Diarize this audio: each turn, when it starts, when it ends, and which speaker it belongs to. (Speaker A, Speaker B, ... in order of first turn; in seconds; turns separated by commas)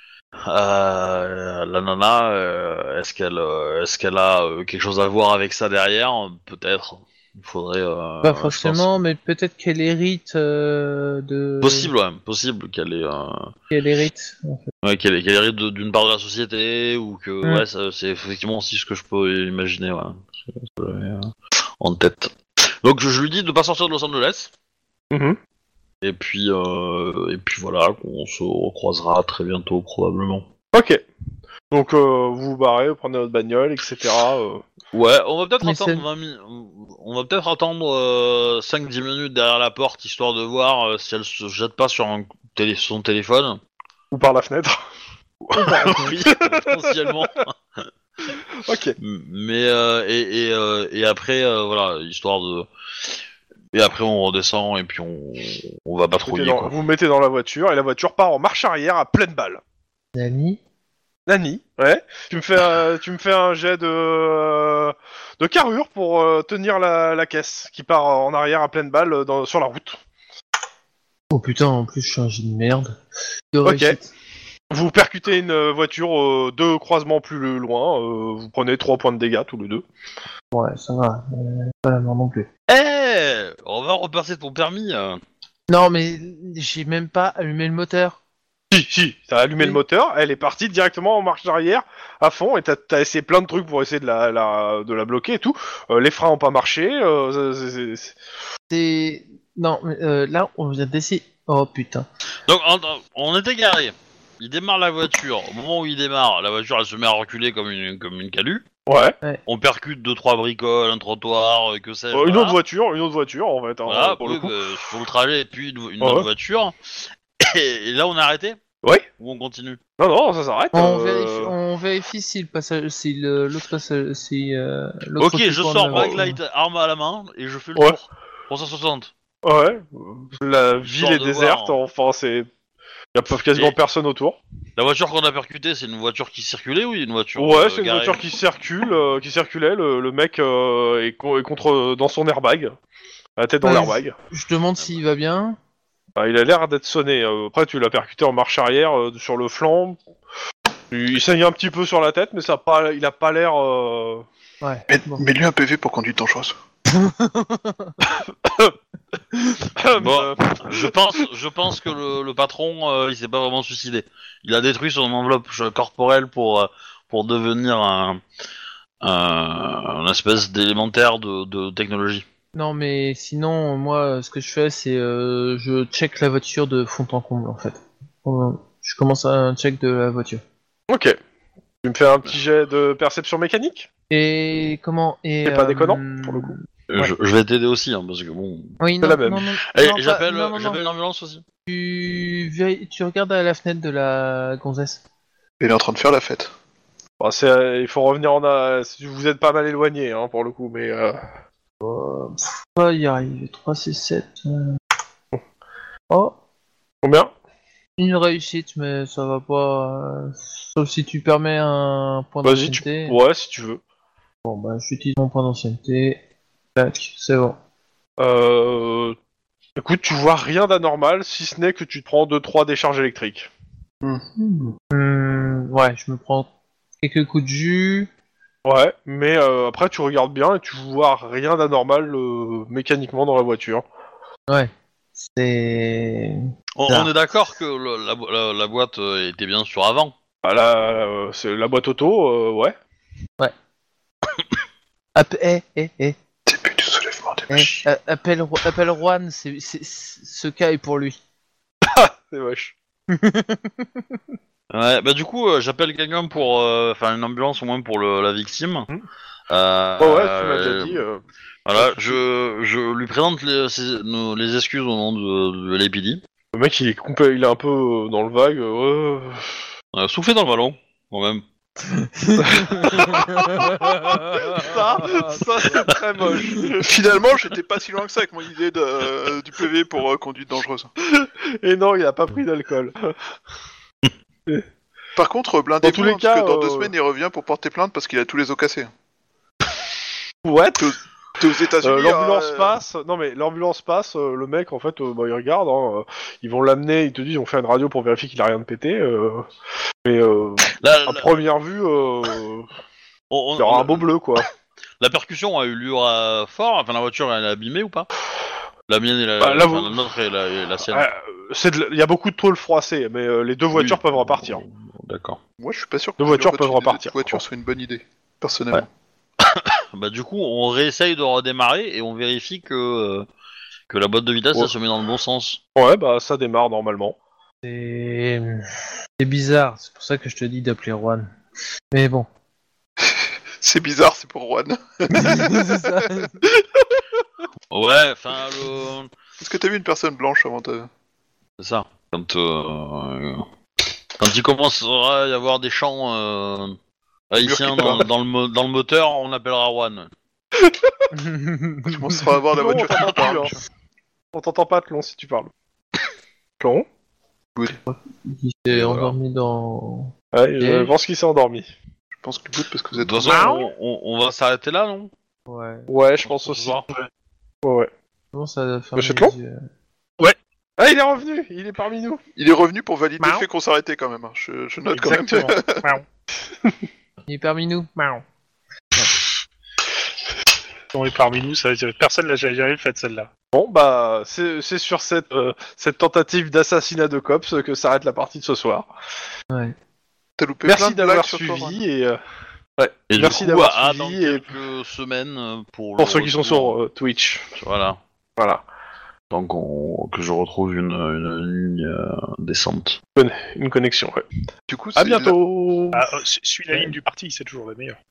Speaker A: 0.5-8.9, Speaker B: 8.2-11.9, Speaker A: 11.6-13.5, Speaker B: 13.7-14.7, Speaker A: 14.8-24.5, Speaker C: 25.1-25.4, Speaker A: 26.0-30.5, Speaker C: 30.7-31.0, Speaker C: 31.7-34.6, Speaker A: 34.9-43.6, Speaker B: 35.6-36.0, Speaker C: 44.1-44.8, Speaker A: 45.4-47.5, Speaker B: 45.5-46.1, Speaker C: 45.7-47.1, Speaker C: 48.6-49.0, Speaker A: 49.0-52.7, Speaker A: 53.7-56.7, Speaker C: 56.2-59.6, Speaker B: 60.1-60.6, Speaker C: 61.3-70.0, Speaker B: 71.3-73.0, Speaker B: 73.5-74.1, Speaker C: 73.6-74.0, Speaker C: 74.7-79.8, Speaker B: 80.5-82.5, Speaker A: 82.7-85.2, Speaker B: 85.7-88.2, Speaker C: 88.7-98.1, Speaker B: 98.7-102.1, Speaker A: 102.5-108.7, Speaker C: 108.9-109.2, Speaker A: 109.5-112.6, Speaker C: 112.1-114.5, Speaker A: 113.9-118.6, Speaker C: 116.0-116.3, Speaker A: 119.2-119.8, Speaker C: 120.0-121.5, Speaker B: 120.7-126.4, Speaker A: 125.2-129.1, Speaker C: 125.9-126.2, Speaker C: 129.4-132.5, Speaker A: 130.8-131.8, Speaker C: 133.1-134.4, Speaker A: 134.8-138.2, Speaker C: 137.4-142.8, Speaker C: 143.4-144.2, Speaker B: 143.6-145.6, Speaker C: 146.2-150.0, Speaker C: 150.9-154.3, Speaker B: 154.6-155.2, Speaker D: 154.9-156.6, Speaker B: 156.9-158.0, Speaker C: 158.1-158.8, Speaker C: 159.8-161.2, Speaker A: 159.9-168.2, Speaker A: 169.0-172.2, Speaker B: 172.5-180.4, Speaker C: 180.9-181.2, Speaker C: 181.8-183.9, Speaker B: 184.1-186.6, Speaker C: 185.4-187.1, Speaker A: 186.9-188.8, Speaker B: 188.8-190.8, Speaker C: 189.0-189.5, Speaker A: 189.7-191.4, Speaker B: 191.7-195.0, Speaker D: 195.6-196.5, Speaker C: 197.2-201.2, Speaker B: 201.8-204.8, Speaker B: 206.1-206.4, Speaker C: 207.0-207.3, Speaker B: 208.0-213.2, Speaker C: 212.4-213.8, Speaker B: 214.4-216.2, Speaker B: 216.8-217.6, Speaker C: 218.2-219.2, Speaker C: 219.8-223.5, Speaker D: 224.0-224.8, Speaker B: 224.9-226.5, Speaker B: 227.0-228.1, Speaker C: 228.7-233.8, Speaker B: 235.2-237.1, Speaker A: 236.8-240.1, Speaker C: 240.4-242.8, Speaker B: 245.2-246.2, Speaker D: 246.5-247.8, Speaker B: 247.5-251.2, Speaker C: 251.8-252.7, Speaker B: 253.1-253.9, Speaker A: 254.7-258.9, Speaker A: 259.5-261.0, Speaker C: 260.0-261.2, Speaker A: 261.7-266.2, Speaker C: 261.8-262.2, Speaker C: 266.5-269.6, Speaker A: 269.9-271.4, Speaker B: 271.9-275.4, Speaker C: 272.4-276.9, Speaker D: 276.8-280.9, Speaker C: 281.0-283.1, Speaker D: 285.2-288.9, Speaker C: 285.8-286.9, Speaker C: 290.4-290.9, Speaker D: 290.8-292.7, Speaker C: 291.8-299.5, Speaker C: 300.0-302.7, Speaker A: 300.8-301.3, Speaker A: 303.3-304.1, Speaker C: 303.6-304.5, Speaker A: 305.0-308.1, Speaker A: 308.9-311.1, Speaker C: 309.4-310.0, Speaker C: 310.9-314.6, Speaker A: 313.7-315.4, Speaker D: 315.6-318.9, Speaker C: 316.2-317.4, Speaker A: 319.4-323.3, Speaker A: 323.9-325.6, Speaker C: 325.8-327.2, Speaker B: 327.6-328.6, Speaker B: 329.2-331.3, Speaker B: 331.9-332.3, Speaker D: 333.6-335.7, Speaker B: 335.1-336.4, Speaker A: 337.7-339.1, Speaker D: 339.4-340.9, Speaker A: 341.6-343.4, Speaker A: 344.2-346.8, Speaker A: 347.3-350.1, Speaker D: 347.4-348.1, Speaker B: 351.1-352.0, Speaker D: 351.9-353.6, Speaker C: 352.5-353.6, Speaker C: 354.3-355.5, Speaker C: 356.6-356.9, Speaker B: 357.9-360.9, Speaker A: 358.7-359.1, Speaker C: 360.3-361.7, Speaker D: 362.1-363.6, Speaker A: 362.9-365.1, Speaker C: 363.3-363.6, Speaker B: 365.5-365.9, Speaker C: 365.9-366.9, Speaker C: 367.6-367.9, Speaker B: 368.3-369.6, Speaker C: 369.0-369.4, Speaker C: 370.2-372.2, Speaker D: 372.4-375.8, Speaker E: 374.9-376.0, Speaker B: 377.3-378.2, Speaker E: 380.9-383.3, Speaker C: 383.5-388.9, Speaker D: 390.4-391.8, Speaker C: 390.6-392.2, Speaker C: 392.8-394.4, Speaker A: 393.1-396.8, Speaker C: 396.0-397.5, Speaker A: 397.6-398.0, Speaker C: 398.4-398.6, Speaker A: 399.3-403.0, Speaker C: 403.2-404.2, Speaker D: 404.7-405.4, Speaker C: 405.0-406.1, Speaker E: 405.9-408.0